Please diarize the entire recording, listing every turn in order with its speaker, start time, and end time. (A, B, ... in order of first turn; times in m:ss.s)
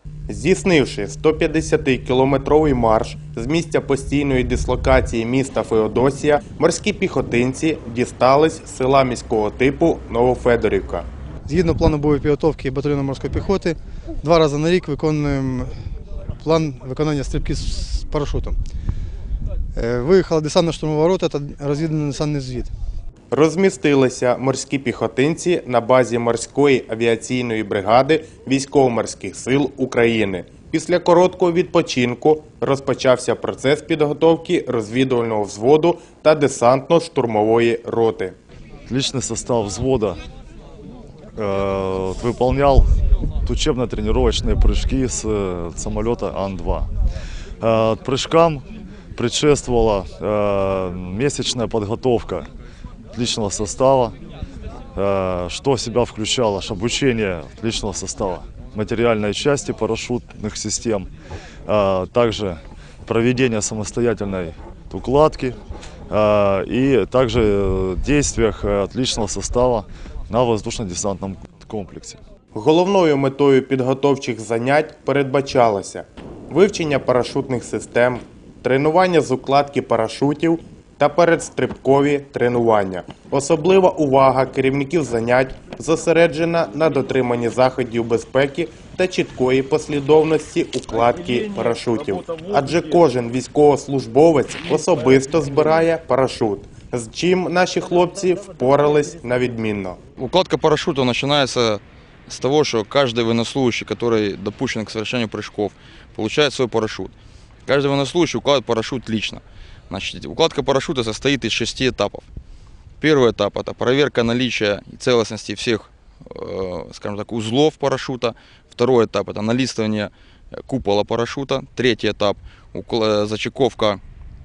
0:00.3-0:11.0 A
0:11.5-0:15.7 B
0:16.4-0:18.6 B
0:19.7-0:22.7 B
0:23.3-0:38.3 A
0:38.9-0:40.2 C
0:41.4-0:42.9 C
0:43.4-0:46.9 C
0:47.6-0:52.5 C
0:53.1-0:54.2 C
0:54.9-1:01.1 C
1:01.6-1:05.6 C
1:06.1-1:12.2 C
1:12.5-1:40.0 A
1:40.2-1:47.1 D
1:47.7-1:52.3 D
1:53.0-2:04.0 D